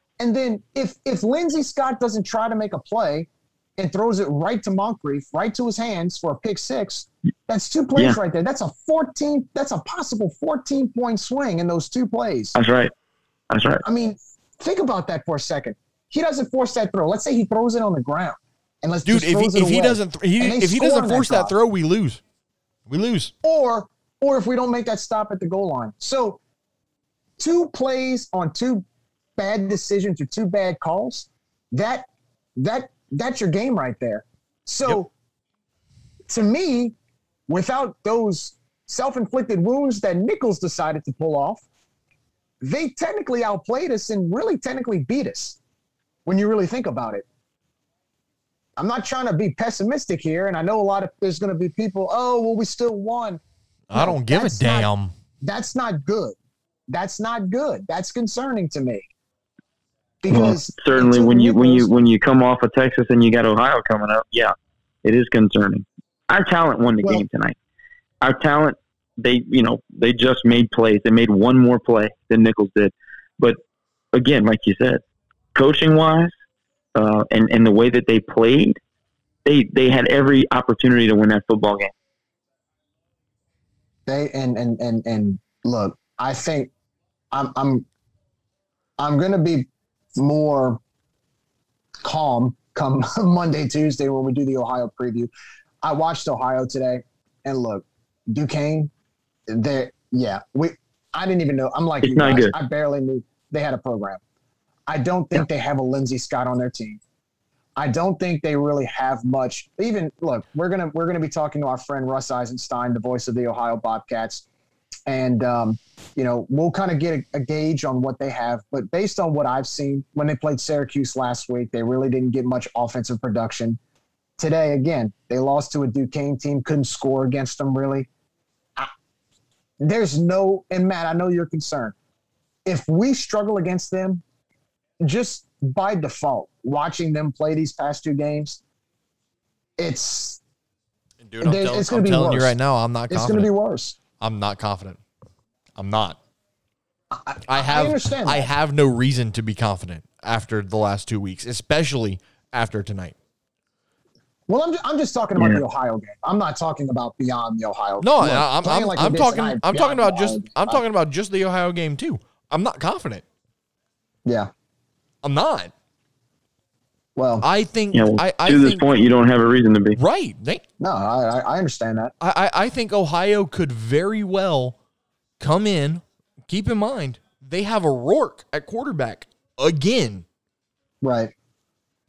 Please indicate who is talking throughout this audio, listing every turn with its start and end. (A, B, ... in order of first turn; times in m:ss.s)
0:00.2-0:12.6 A
0:12.6-0:12.9 B
0:13.5-0:13.8 B
0:13.8-0:21.5 A
0:19.0-0:22.2 C
0:22.9-0:23.3 C
0:23.4-0:26.4 A
0:27.4-0:28.8 A
0:29.4-0:35.1 A
0:36.3-0:37.0 A
0:37.5-0:41.6 A
0:42.6-0:45.6 A
0:46.2-0:47.2 A
0:48.8-0:53.4 A
0:53.9-0:55.1 C
0:53.9-0:54.9 A
0:55.4-0:56.4 A
0:56.9-0:59.0 A
1:00.2-1:01.9 A
1:00.3-1:04.5 B
1:05.0-1:07.6 B
1:08.2-1:13.6 B
1:14.1-1:15.0 B
1:15.6-1:16.3 B
1:17.0-1:18.8 B
1:19.4-1:21.9 B
1:24.1-1:26.7 A
1:27.3-1:27.9 A
1:29.0-1:30.8 A
1:32.0-1:35.3 A
1:35.8-1:38.9 A
1:39.5-1:44.2 A
1:42.0-1:42.5 B
1:44.9-1:47.0 A
1:47.8-1:54.4 A
1:55.1-2:03.8 A
2:04.4-2:08.1 A
2:09.8-2:12.0 A
2:12.6-2:14.2 A
2:15.0-2:18.6 A
2:19.8-2:20.4 A
2:21.2-2:23.5 C
2:21.4-2:22.6 A
2:23.1-2:24.0 A
2:24.2-2:25.0 C
2:25.8-2:26.2 C
2:27.1-2:28.5 A
2:27.5-2:33.2 C
2:34.5-2:40.8 A
2:38.0-2:43.2 C
2:45.2-2:45.7 C
2:47.2-2:47.5 A
2:47.4-2:48.9 C
2:47.9-2:50.0 B
2:50.0-2:50.6 C
2:50.8-2:52.1 A
2:52.2-2:54.8 C
2:55.4-3:00.3 C
3:01.0-3:01.3 A